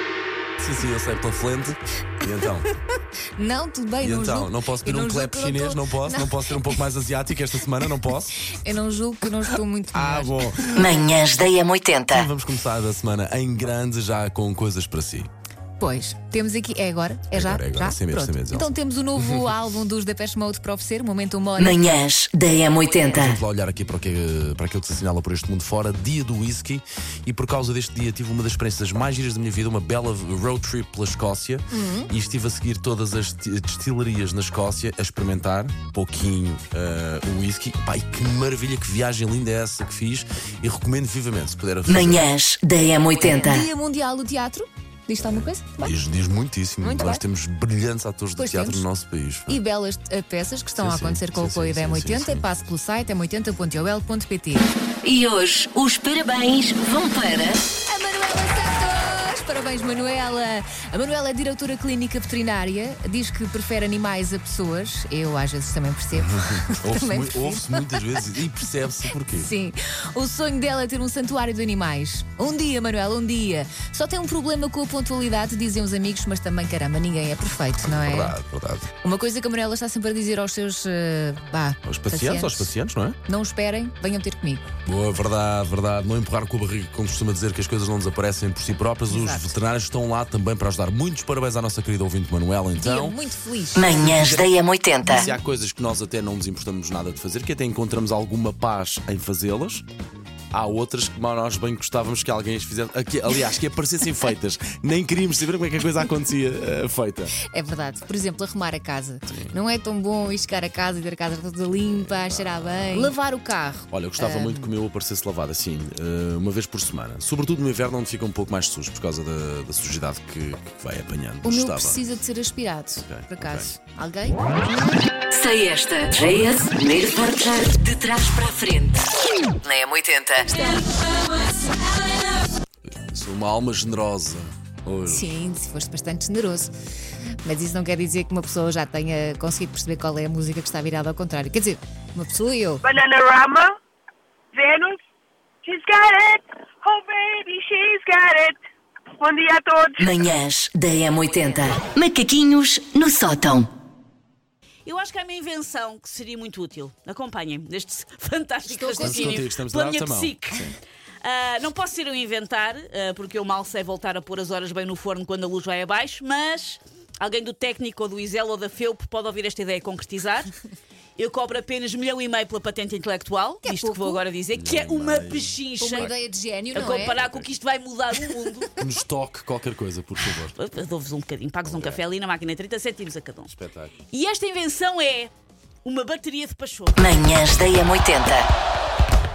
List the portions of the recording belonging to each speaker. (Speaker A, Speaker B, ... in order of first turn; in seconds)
Speaker A: 0.6-2.7, 4.0-8.4, 9.9-11.0, 12.1-15.3, 17.3-18.7, 23.1-42.3, 45.2-49.6, 50.8-52.5, 66.1-69.5, 77.9-78.9, 81.9-83.2, 84.9-93.2, 94.1-94.5, 95.1-99.8, 100.5-107.4, 109.3-109.5, 111.8-113.1, 113.9-122.0, 123.1-123.7, 132.9-135.3, 159.0-160.7, 174.5-176.1, 177.2-177.5, 178.8-180.5, 181.7-182.0, 183.5-184.0
Speaker B: 3.4-6.8, 8.5-10.6, 15.8-21.9, 31.7-32.1, 43.1-46.0, 46.8-47.2, 48.4-48.9, 49.5-54.7, 57.9-68.2, 69.3-78.4, 79.0-82.7, 83.3-84.7, 89.1-89.5, 92.8-94.4, 95.0-95.4, 107.4-114.7, 121.4-124.5, 135.1-136.7, 137.4-142.8, 158.7-159.5, 173.6-174.2, 175.8-177.2
Speaker C: 10.8-12.3, 21.6-23.4, 41.9-43.7, 55.0-57.6, 93.8-95.3, 125.3-129.1, 129.6-130.8, 150.0-153.7, 187.0-188.5
Speaker D: 142.9-143.7, 144.6-145.0, 145.7-148.6, 149.2-150.0
Speaker E: 154.9-170.5, 171.2-176.1, 176.7-178.7, 180.6-183.5, 184.1-185.3, 185.8-187.0